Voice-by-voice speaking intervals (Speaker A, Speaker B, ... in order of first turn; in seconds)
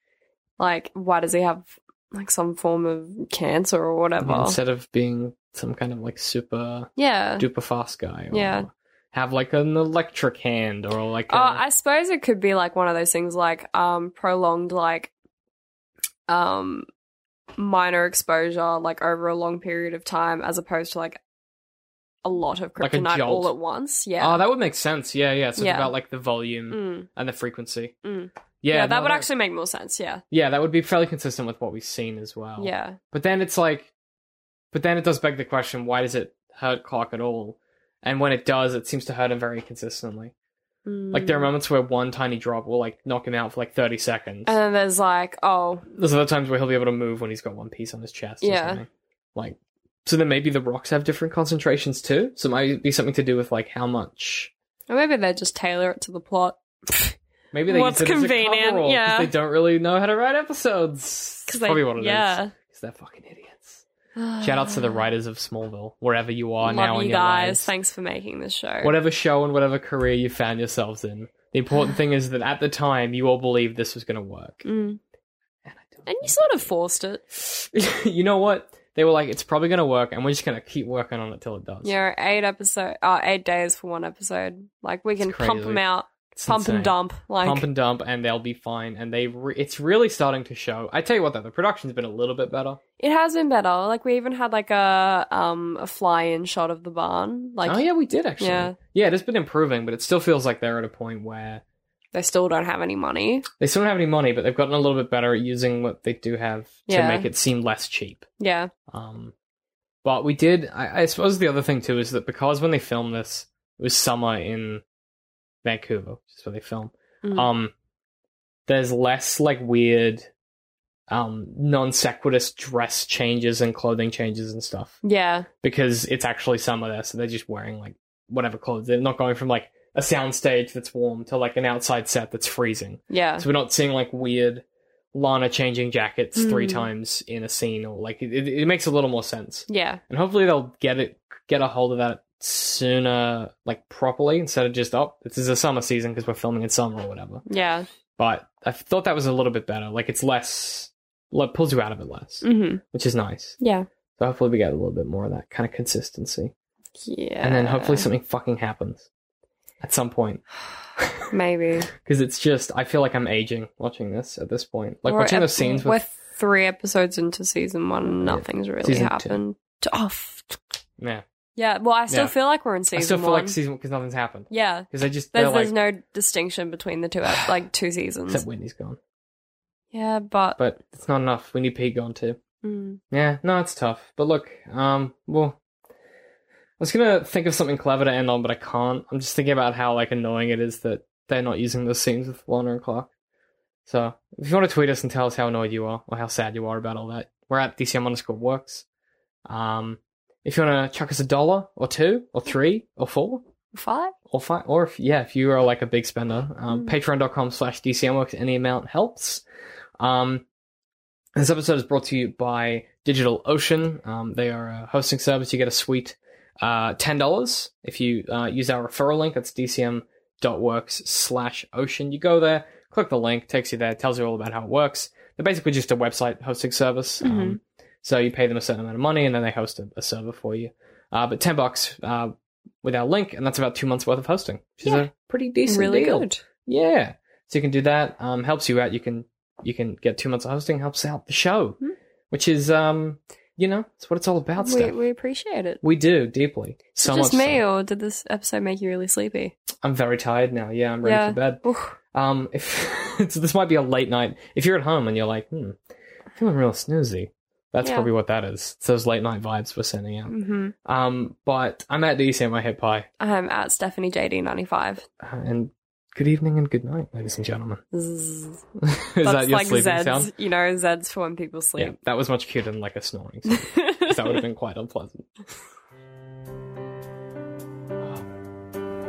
Speaker A: 0.6-4.6, 7.0-7.5, 8.3-8.7, 11.3-15.1, 16.3-16.9, 17.6-21.2, 22.2-24.4, 25.6-25.9, 26.7-27.1, 28.0-30.2, 32.6-33.0, 40.9-41.5, 44.5-45.8, 48.4-48.8, 54.9-57.1, 57.7-59.3, 61.5-62.5, 64.2-65.0, 66.6-68.9, 74.6-75.0, 76.0-77.2, 81.8-87.7, 93.0-97.8, 98.4-98.8, 102.1-103.5, 106.9-107.3, 108.4-108.7, 117.2-117.5, 125.0-125.5, 133.1-133.4, 136.3-136.9, 139.7-140.0, 147.4-147.9, 152.4-152.8, 153.6-153.9, 157.0-158.1, 161.3-161.9, 165.1-170.6, 171.6-173.6, 174.5-178.4, 179.9-180.6, 182.6-183.0, 203.7-204.1, 227.2-227.6, 234.8-235.1, 235.7-236.4, 244.6-245.8, 247.0-249.5, 251.0-251.9, 257.8-258.1, 260.3-260.7, 263.2-265.0, 267.9-268.6, 269.2-271.9, 273.5-274.4
Speaker B: 4.2-11.6, 22.8-23.5, 24.2-27.9, 28.6-29.3, 30.3-33.9, 34.7-40.3, 41.1-44.5, 45.9-54.5, 57.5-63.8, 64.4-67.7, 68.8-74.7, 75.6-76.7, 77.3-81.9, 85.2-85.8, 86.3-92.8, 97.6-101.6, 103.6-108.2, 108.9-109.3, 110.0-114.8, 115.6-117.7, 118.7-120.3, 121.1-125.0, 125.6-147.4, 148.2-153.6, 154.2-156.5, 157.4-159.1, 159.8-160.4, 161.0-161.3, 161.9-166.0, 168.1-169.4, 171.0-171.2, 172.1-172.3, 172.9-175.7, 178.3-179.0, 180.6-182.4, 183.1-185.6, 186.8-193.1, 193.9-198.8, 199.4-203.4, 204.3-209.4, 210.0-210.4, 211.3-241.8, 242.3-244.9, 245.8-247.6, 249.8-255.8, 256.3-263.1, 265.2-267.8, 268.8-270.3, 271.8-275.3